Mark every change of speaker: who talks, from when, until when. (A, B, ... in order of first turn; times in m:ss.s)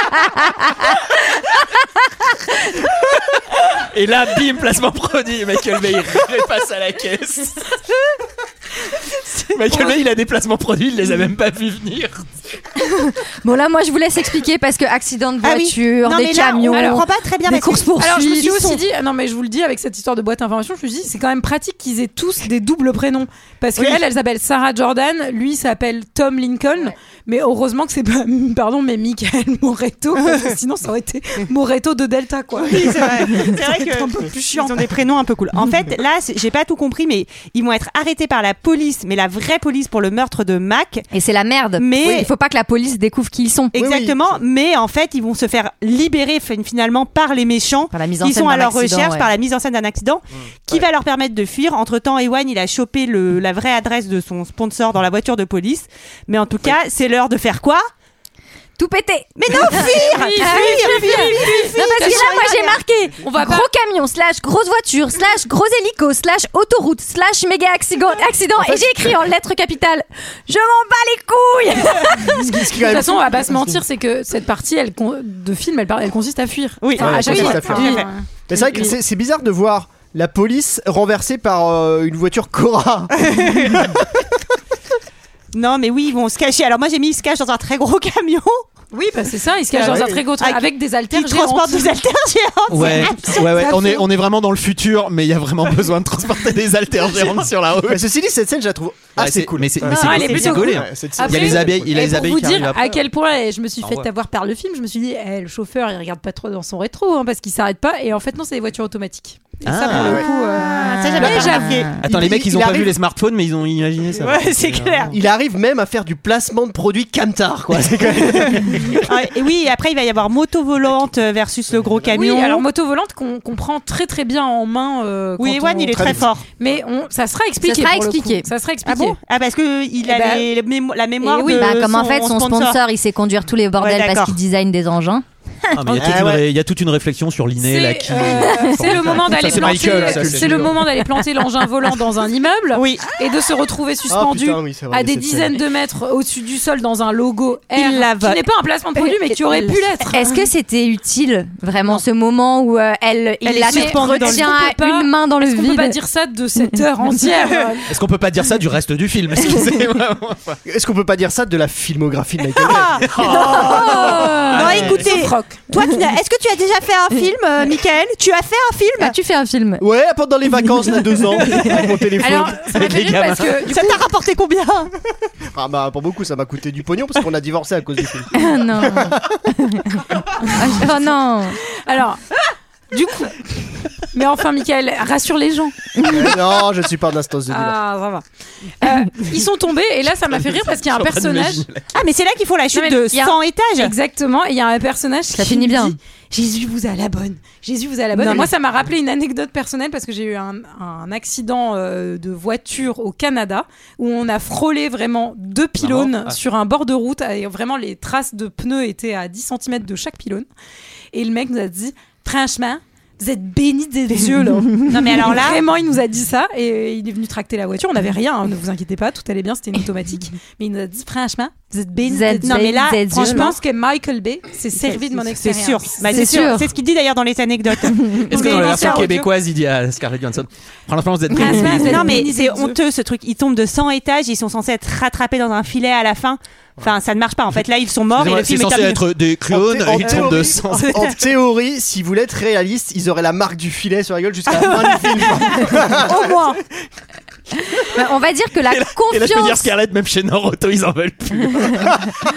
0:03.8-0:07.7 A
0:09.3-0:12.2 A
0:12.8-0:18.7 B
0:15.4-0:17.9 C
0:16.7-0:17.0 D
0:18.0-0:34.8 D
0:23.8-0:24.0 C
0:32.6-0:41.1 C
0:41.1-0:43.8 B
0:41.8-0:42.3 C
0:43.7-0:57.9 C
0:43.8-0:44.4 E
0:47.9-0:49.3 B
0:58.8-1:12.6 B
0:59.4-1:02.8 C
0:59.7-1:02.6 D
1:03.2-1:03.7 D
1:08.6-1:09.0 E
1:12.3-1:13.8 E
1:12.8-1:18.9 D
1:16.8-1:18.9 C
1:17.0-1:24.1 E
1:17.3-1:17.6 B
1:25.5-1:28.7 C
1:28.9-1:31.9 D
1:29.7-1:33.9 C
1:29.8-1:30.2 E
1:32.7-1:38.1 A
1:32.8-1:33.3 D
1:37.8-1:42.9 E
1:39.2-1:42.9 A
1:39.8-1:51.8 D
1:43.8-1:44.1 A
1:49.6-1:50.2 A
1:49.9-1:50.2 E
1:50.6-1:51.9 C
1:51.2-1:53.0 E
1:51.2-1:51.9 B
1:51.9-1:55.1 A
1:54.2-1:55.1 C
1:55.1-1:59.0 E
1:57.7-1:58.6 A
1:59.0-2:02.6 C
2:02.1-2:09.2 D
2:05.4-2:06.4 C
2:05.9-2:06.3 E
2:07.6-2:08.5 B
2:08.8-2:12.8 C
2:10.0-2:10.5 D
2:11.2-2:11.7 D
2:11.4-2:16.1 B
2:13.8-2:14.4 C
2:15.8-2:20.8 A
2:16.0-2:16.5 E
2:17.6-2:30.4 D
2:18.5-2:18.7 B
2:18.9-2:20.8 E
2:22.7-2:23.0 C
2:24.1-2:25.6 E
2:27.7-2:28.4 C
2:29.0-2:36.0 B
2:33.4-2:34.5 C
2:33.7-2:37.9 D
2:37.9-2:40.6 A
2:40.6-2:43.6 E
2:42.6-2:49.1 C
2:42.6-2:45.0 A
2:43.2-2:45.6 D
2:43.5-2:44.3 B
2:49.0-2:49.8 B
2:49.8-2:52.7 E
2:50.5-2:51.8 B
2:52.2-2:54.0 D
2:52.2-2:53.7 A
2:53.6-2:54.9 C
2:55.5-2:59.3 E
2:58.3-3:01.6 B
3:01.8-3:02.2 D
3:02.9-3:05.9 D
3:06.0-3:06.4 B
3:06.0-3:07.8 E
3:07.5-3:08.2 D
3:08.8-3:11.6 D
3:10.3-3:11.9 A
3:11.9-3:13.9 C
3:12.7-3:30.5 D
3:15.3-3:16.0 B
3:18.2-3:18.5 E
3:25.8-3:26.4 A
3:31.1-3:46.3 D
3:34.8-3:35.6 C
3:42.0-3:43.5 B
3:42.4-3:43.6 C
3:44.8-3:49.2 C
3:46.1-3:46.7 B
3:48.2-3:52.1 A
3:48.3-3:49.3 D
3:51.4-3:52.8 D
3:51.4-3:59.0 C
3:58.1-4:01.1 A
3:59.5-4:06.1 E
4:04.5-4:06.6 C
4:06.2-4:06.5 D
4:07.8-4:09.7 B
4:08.7-4:12.0 A
4:11.5-4:11.9 B